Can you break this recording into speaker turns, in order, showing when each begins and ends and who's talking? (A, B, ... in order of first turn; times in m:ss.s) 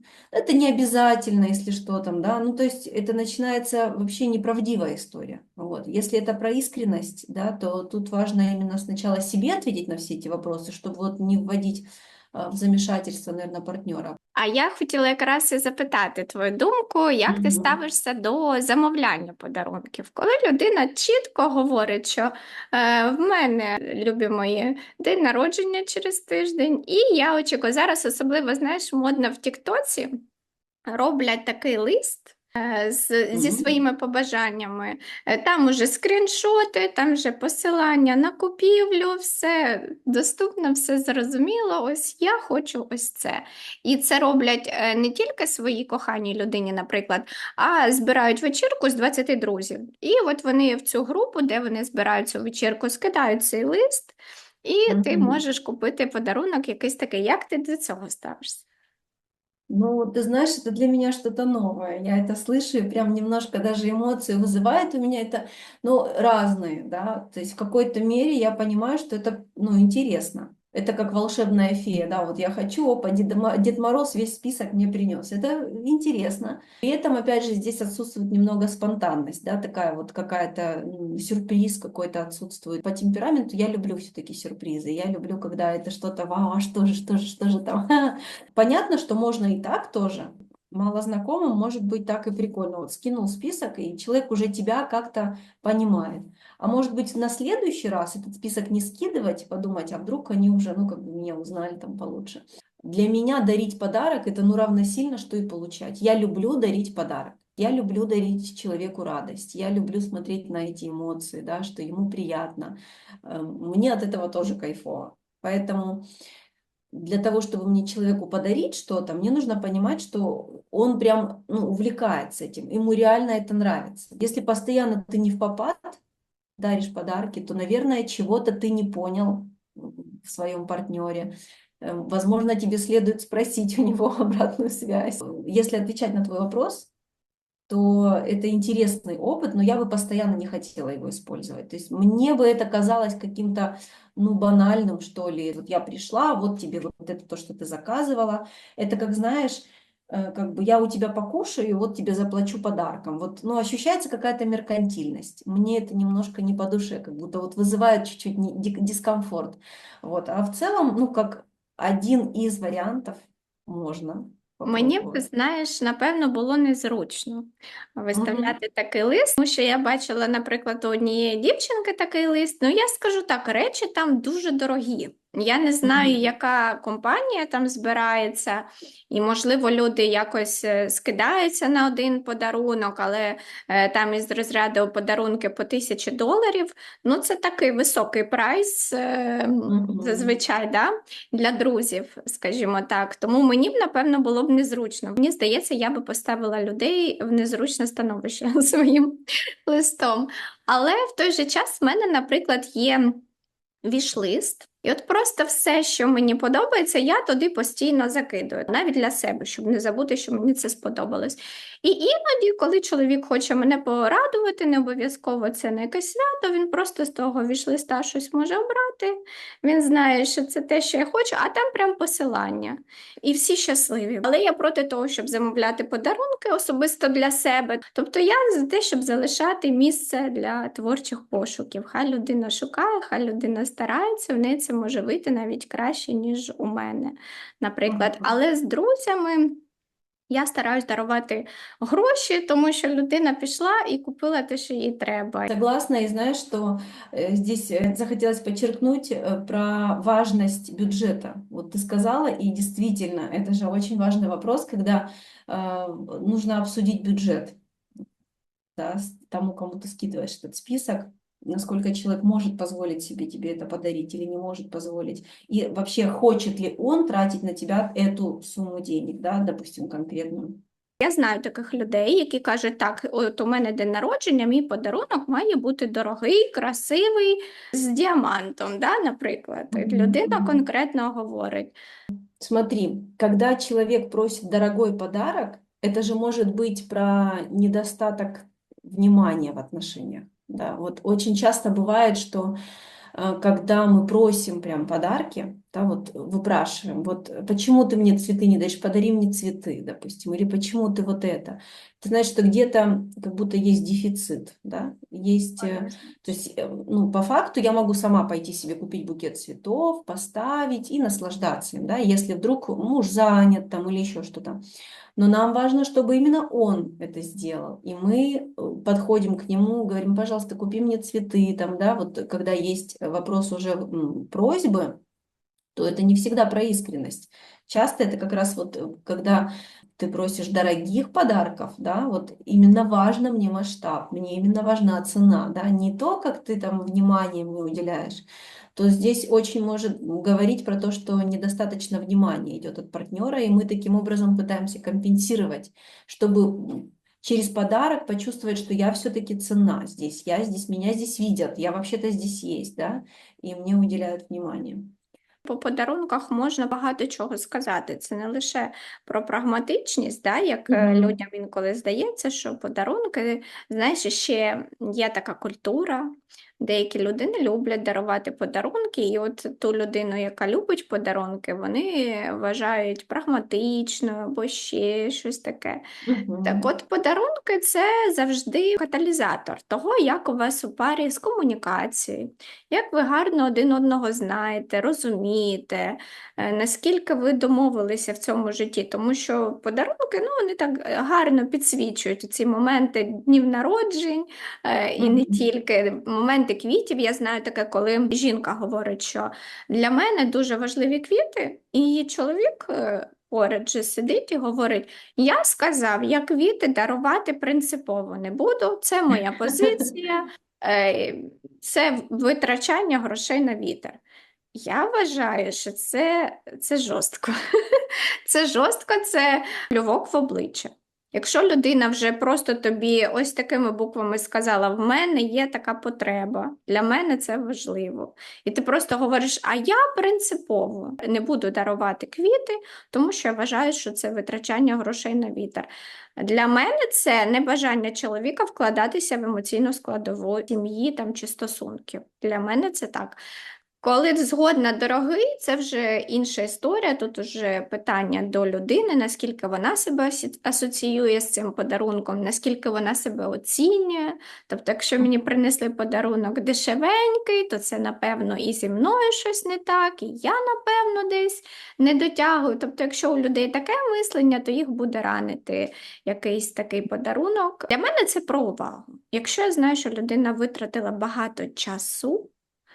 0:00.3-0:14.2 A
0:14.4-0:30.2 B
0:17.3-0:17.7 A
0:30.9-0:58.6 B
0:33.3-0:33.7 A
0:54.9-0:55.4 A
0:59.7-1:56.1 A
1:56.9-2:06.0 A
2:06.6-2:16.9 A
2:17.7-2:45.3 A
2:44.7-3:23.2 B
2:48.1-2:48.6 A
2:55.8-2:56.2 A
3:09.7-3:10.4 A
3:23.8-3:59.6 B
3:57.8-3:58.3 A
4:00.3-4:05.5 B
4:05.5-4:17.6 A
4:18.8-4:30.6 A
4:31.0-4:41.8 B
4:39.7-4:40.5 A
4:42.4-4:52.6 A
4:53.2-5:14.6 A
5:05.6-5:05.9 B
5:15.2-5:25.0 A
5:25.8-5:55.0 A
5:55.4-6:15.8 B
6:00.7-6:01.2 A
6:16.0-6:16.7 A
6:16.4-6:54.0 B
6:35.0-6:35.4 A
6:54.6-7:23.2 B
7:23.8-7:52.3 B